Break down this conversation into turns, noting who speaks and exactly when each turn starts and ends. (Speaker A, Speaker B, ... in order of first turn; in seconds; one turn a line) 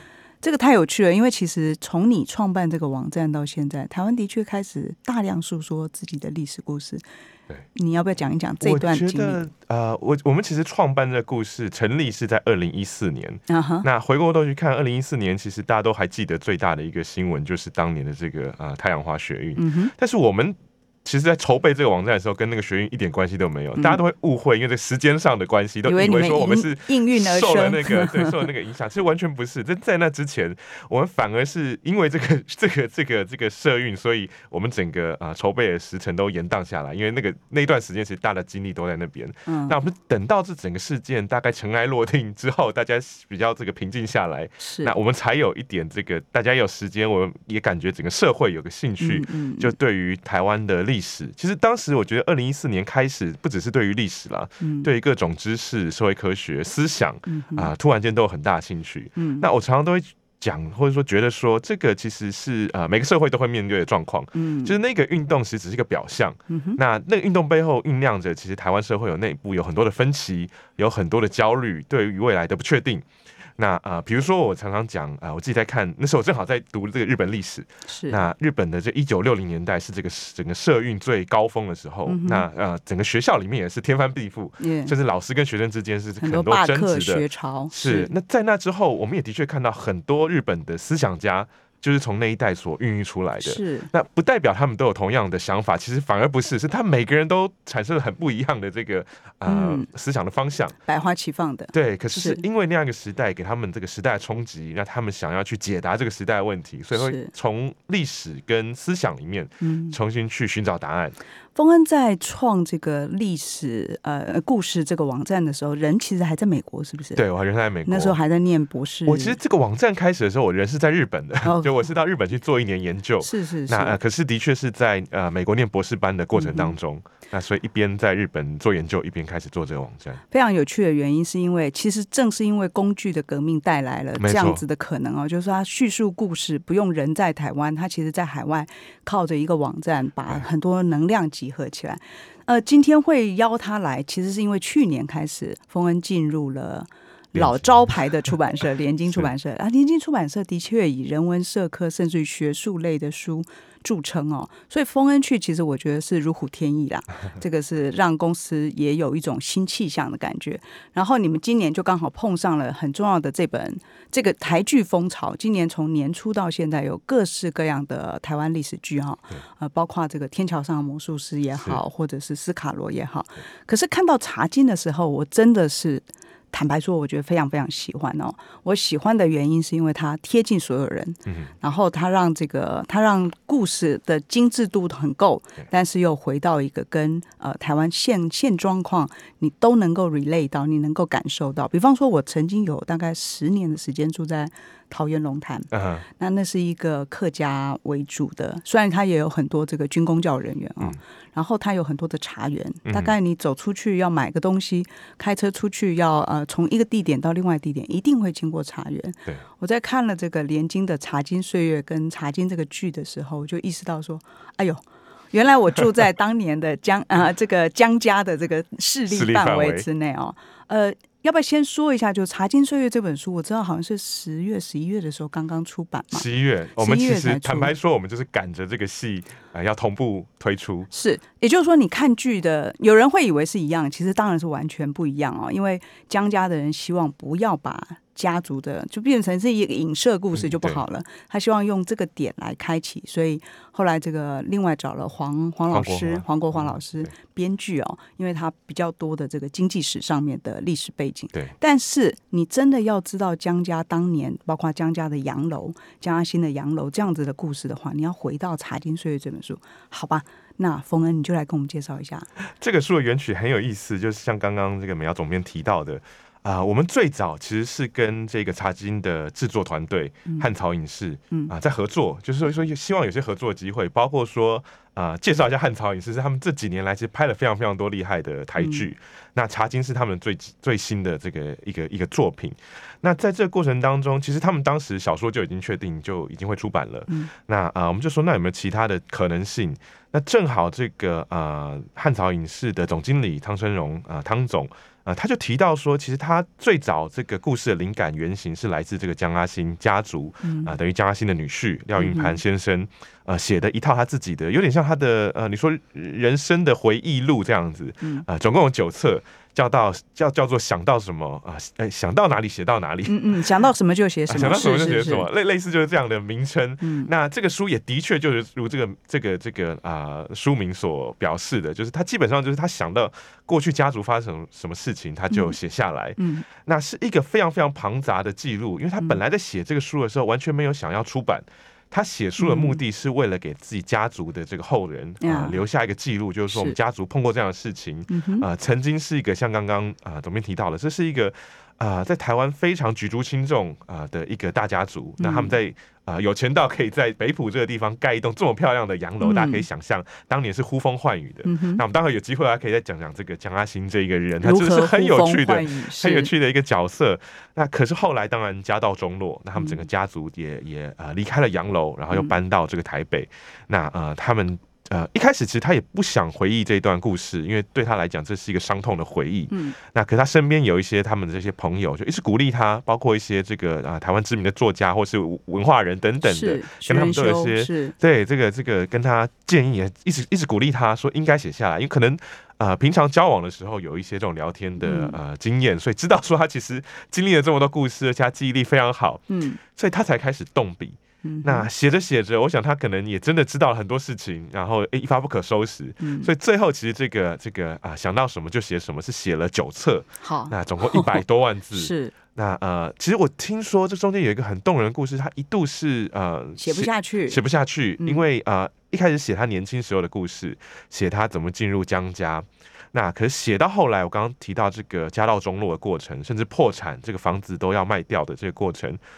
Speaker A: 0.4-7.0
Speaker A: 7.8-9.4
Speaker B: 8.6-73.1
Speaker A: 13.5-13.9
Speaker A: 19.6-19.9
Speaker A: 25.9-28.5
Speaker A: 39.5-39.8
Speaker A: 44.6-44.9
Speaker A: 49.0-49.7
Speaker A: 54.6-54.9
Speaker A: 57.3-57.7
Speaker A: 59.2-59.5
Speaker A: 64.3-64.8
Speaker A: 66.5-66.8
Speaker B: 73.6-100.8
Speaker A: 77.9-78.2
Speaker A: 82.1-82.5
Speaker A: 84.6-84.9
Speaker A: 86.2-88.1
Speaker A: 93.4-93.9
Speaker A: 99.5-99.9
Speaker A: 100.9-102.4
Speaker B: 101.7-111.2
Speaker A: 106.9-107.3
Speaker A: 109.6-110.0
Speaker A: 111.5-117.2
Speaker B: 117.2-118.2
Speaker A: 117.9-119.4
Speaker B: 119.1-130.2
Speaker A: 121.4-121.7
Speaker A: 123.2-124.0
Speaker A: 126.3-126.8
Speaker A: 130.3-226.3
Speaker B: 134.2-134.6
Speaker B: 147.3-147.9
Speaker B: 195.7-196.1
Speaker B: 202.9-203.1
Speaker B: 219.1-219.9
Speaker B: 226.1-230.9
Speaker A: 226.8-227.7
Speaker A: 230.9-262.3
Speaker B: 240.4-240.8
Speaker B: 245.7-247.1
Speaker B: 262.6-313.4
Speaker A: 278.6-278.9
Speaker A: 300.4-300.7
Speaker A: 302.0-302.4
Speaker A: 313.1-315.3
Speaker B: 314.3-419.0
Speaker A: 316.8-317.1
Speaker A: 325.3-325.6
Speaker A: 326.2-326.5
Speaker A: 332.4-332.8
Speaker A: 335.2-335.6
Speaker A: 336.5-336.8
Speaker A: 338.1-338.5
Speaker A: 345.2-345.6
Speaker A: 349.2-349.7
Speaker A: 351.4-351.8
Speaker A: 354.4-356.3
Speaker A: 376.2-377.9
Speaker A: 384.8-385.2
Speaker A: 389.3-389.6
Speaker A: 391.2-391.7
Speaker A: 396.0-396.3
Speaker A: 400.2-401.2
Speaker A: 401.7-402.1
Speaker A: 406.6-407.4